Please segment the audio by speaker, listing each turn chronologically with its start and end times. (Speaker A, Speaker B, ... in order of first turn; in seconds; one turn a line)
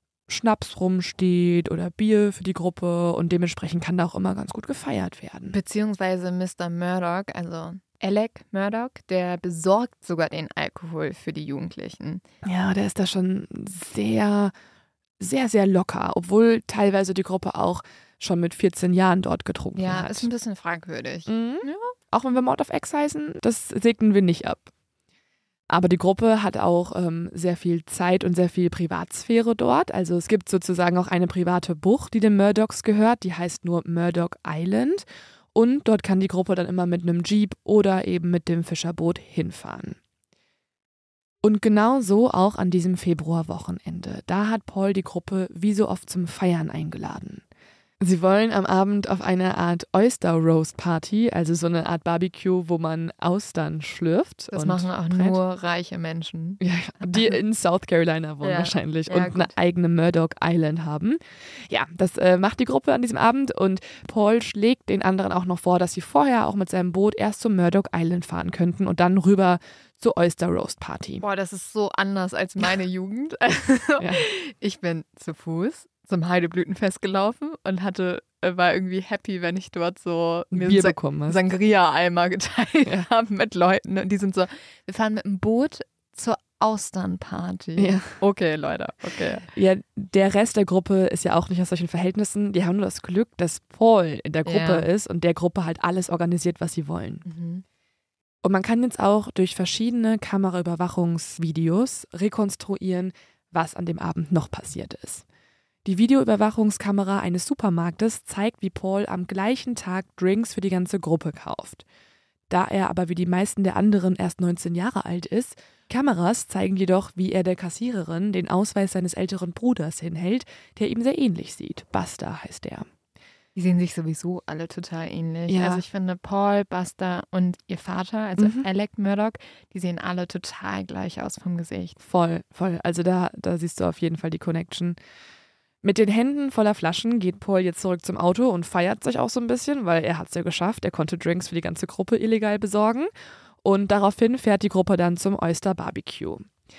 Speaker A: 0.3-5.5
Speaker B: 5.5-12.2
Speaker A: 12.4-14.5
Speaker A: 15.2-20.3
Speaker B: 19.8-21.9
Speaker A: 21.3-24.7
Speaker A: 25.7-40.0
Speaker A: 41.4-47.4
Speaker A: 48.0-55.4
Speaker B: 54.5-57.4
Speaker A: 56.6-71.2
Speaker B: 58.4-59.5
Speaker B: 71.2-89.5
Speaker A: 74.0-74.2
Speaker A: 80.5-81.5
Speaker A: 87.8-88.1
Speaker A: 89.5-97.2
Speaker B: 94.4-94.8
Speaker B: 97.2-97.6
Speaker A: 98.4-105.2
Speaker A: 105.8-111.8
Speaker A: 112.5-122.8
Speaker B: 123.5-132.0
Speaker A: 125.5-125.8
Speaker A: 128.4-128.7
Speaker A: 132.0-135.0
Speaker A: 135.8-143.1
Speaker A: 143.6-146.5